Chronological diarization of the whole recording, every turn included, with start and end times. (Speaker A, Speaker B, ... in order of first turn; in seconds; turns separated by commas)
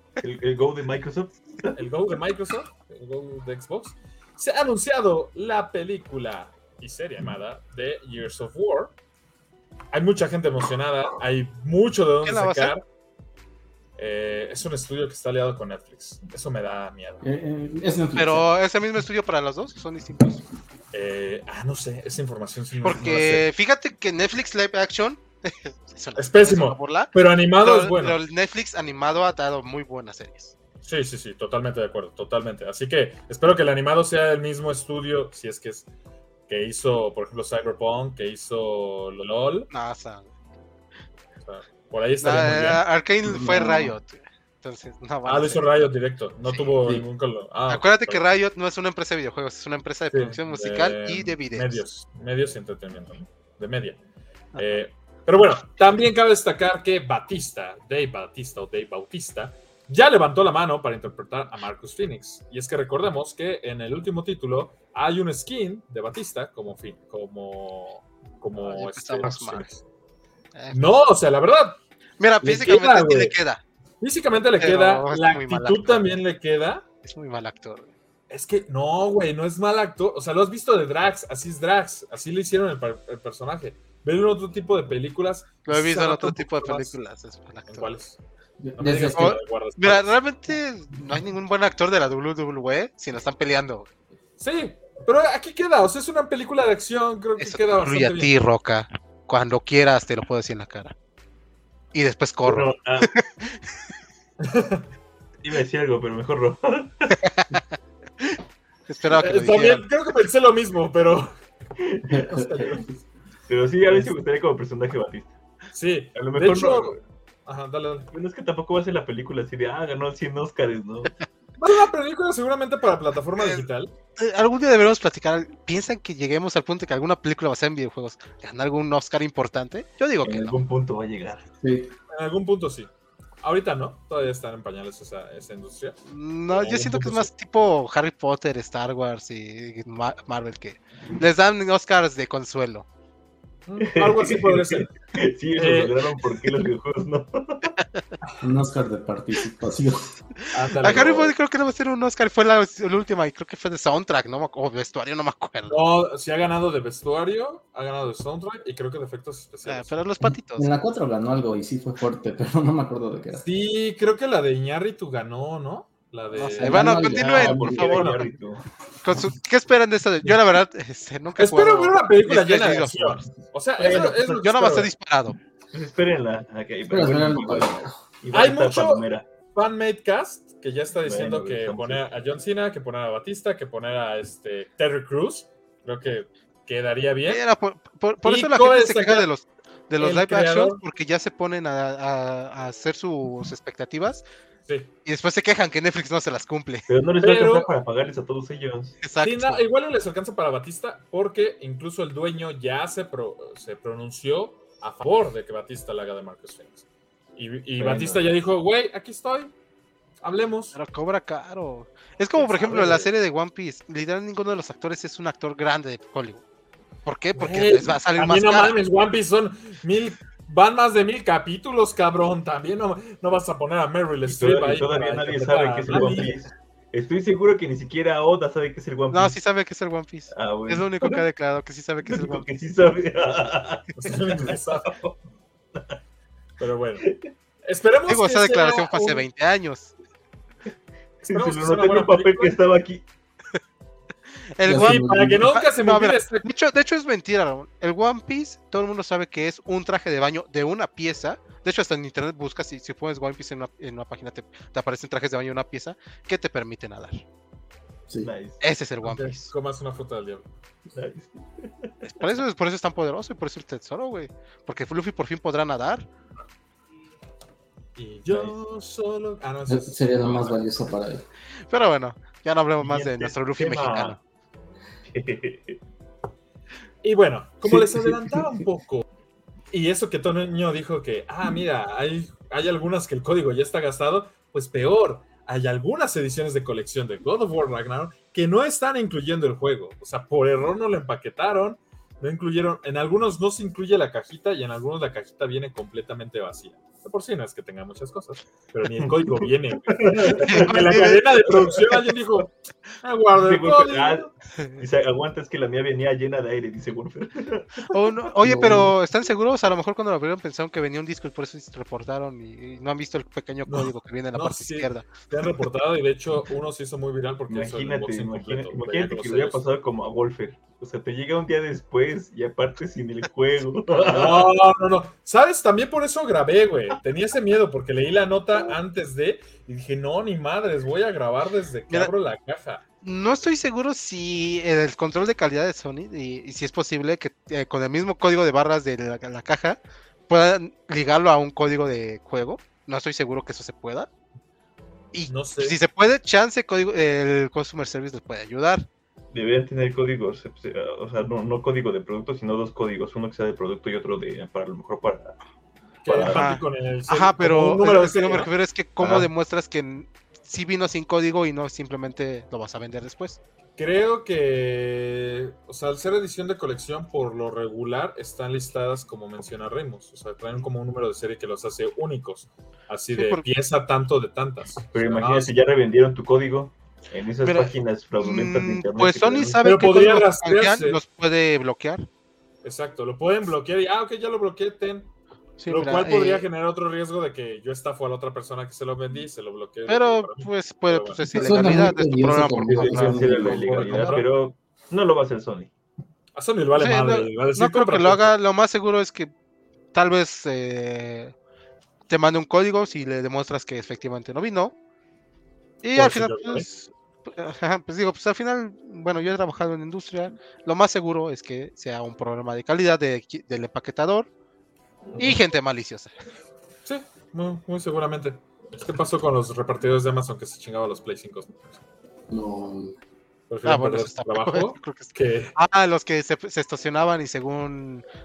Speaker A: 0.2-1.8, Speaker B: 1.7-8.9, Speaker B: 9.9-12.8, Speaker C: 12.2-12.7, Speaker B: 14.0-17.2, Speaker D: 17.2-18.5, Speaker C: 18.1-20.4, Speaker B: 20.9-23.4, Speaker C: 22.8-30.5, Speaker B: 26.1-28.2, Speaker B: 30.8-35.9, Speaker B: 36.5-39.7, Speaker C: 39.7-40.3, Speaker B: 41.4-42.8, Speaker C: 42.2-45.9, Speaker D: 43.2-43.9, Speaker B: 45.2-48.2, Speaker C: 47.7-51.8, Speaker B: 50.1-54.0, Speaker B: 54.6-69.8, Speaker C: 68.6-69.7, Speaker C: 70.5-71.0, Speaker B: 70.7-71.8, Speaker C: 72.2-73.6, Speaker B: 72.4-73.3, Speaker B: 74.0-76.8, Speaker C: 74.6-76.1, Speaker C: 77.0-77.9, Speaker B: 78.3-86.9, Speaker C: 85.7-87.9, Speaker B: 87.7-88.2, Speaker D: 88.6-89.3, Speaker B: 88.8-90.1, Speaker C: 89.1-93.9, Speaker B: 94.4-98.3, Speaker C: 97.4-100.9, Speaker C: 101.9-103.5, Speaker A: 102.4-103.1, Speaker B: 104.4-104.8, Speaker A: 105.4-107.2, Speaker C: 107.2-107.6, Speaker C: 108.9-109.8, Speaker B: 109.1-111.3, Speaker A: 111.8-112.2, Speaker D: 112.1-112.8, Speaker B: 112.2-112.9, Speaker A: 113.5-115.3, Speaker B: 115.7-118.1, Speaker A: 116.1-117.0, Speaker A: 118.1-121.1, Speaker B: 121.6-123.9, Speaker C: 124.2-130.6, Speaker A: 130.2-131.4, Speaker D: 131.6-131.9, Speaker B: 132.1-132.9, Speaker B: 133.4-135.9, Speaker C: 136.1-142.8, Speaker B: 136.5-137.3, Speaker B: 143.7-144.9, Speaker A: 143.8-147.7, Speaker B: 145.6-145.9, Speaker D: 148.4-150.1, Speaker B: 150.5-151.3, Speaker C: 150.8-155.8, Speaker B: 155.7-160.0, Speaker C: 159.7-160.7, Speaker D: 160.2-163.4, Speaker B: 163.4-168.2, Speaker C: 166.3-168.3, Speaker D: 166.6-168.0, Speaker A: 167.0-168.6, Speaker C: 169.0-173.3, Speaker B: 171.4-174.9, Speaker C: 173.8-175.3, Speaker A: 173.9-174.3, Speaker A: 175.7-179.3, Speaker D: 176.9-177.9, Speaker B: 178.3-187.4, Speaker A: 181.0-182.1, Speaker C: 187.3-194.2, Speaker B: 188.2-189.3, Speaker B: 190.0-190.8, Speaker C: 195.0-196.9, Speaker A: 196.9-199.0, Speaker B: 197.2-197.7, Speaker C: 199.0-199.6, Speaker B: 199.2-206.8, Speaker B: 207.3-209.5, Speaker A: 207.8-208.2, Speaker B: 210.2-210.7, Speaker C: 210.7-216.4, Speaker B: 212.3-213.1, Speaker C: 217.0-218.8, Speaker B: 217.3-226.3, Speaker A: 224.2-229.4, Speaker C: 229.1-232.4, Speaker A: 230.3-231.2, Speaker A: 232.0-235.2, Speaker B: 233.9-234.9, Speaker B: 236.6-237.1, Speaker A: 237.0-237.3, Speaker B: 237.6-239.2, Speaker C: 238.1-239.9, Speaker B: 241.2-242.6, Speaker A: 241.2-243.0, Speaker C: 244.5-257.2, Speaker D: 244.6-245.4, Speaker B: 244.7-246.5, Speaker A: 258.2-258.6, Speaker C: 258.6-259.5, Speaker B: 259.0-260.4, Speaker A: 260.9-261.9, Speaker C: 262.1-266.1, Speaker B: 267.9-270.6, Speaker A: 268.3-268.5, Speaker D: 269.7-271.2, Speaker C: 271.7-274.2, Speaker A: 272.8-274.2, Speaker A: 275.1-275.8, Speaker B: 277.0-279.0, Speaker B: 279.7-304.3, Speaker A: 299.0-302.0, Speaker C: 300.3-301.2, Speaker A: 303.3-308.1, Speaker C: 307.9-315.1, Speaker D: 308.4-308.9, Speaker B: 313.7-319.6, Speaker A: 317.5-324.6, Speaker B: 323.9-332.8, Speaker C: 333.0-344.1, Speaker C: 345.1-348.9, Speaker B: 345.3-345.8, Speaker A: 349.3-355.4, Speaker B: 356.0-358.5, Speaker A: 356.0-356.5, Speaker C: 356.2-363.4, Speaker A: 359.0-359.3, Speaker B: 363.8-375.6, Speaker C: 373.1-373.4, Speaker A: 374.9-379.5, Speaker C: 377.4-382.1, Speaker B: 379.4-381.0, Speaker B: 382.6-385.1, Speaker C: 385.6-386.4, Speaker B: 385.7-391.6, Speaker C: 389.9-393.9, Speaker D: 391.3-393.4, Speaker A: 392.6-395.7, Speaker B: 392.9-394.3, Speaker B: 396.4-398.3, Speaker C: 396.7-399.3, Speaker C: 399.9-401.3, Speaker C: 402.1-404.7, Speaker C: 405.8-414.3, Speaker B: 405.9-406.7, Speaker C: 415.2-416.1, Speaker B: 416.8-421.8, Speaker D: 422.3-422.9, Speaker B: 423.5-425.5, Speaker C: 423.6-428.0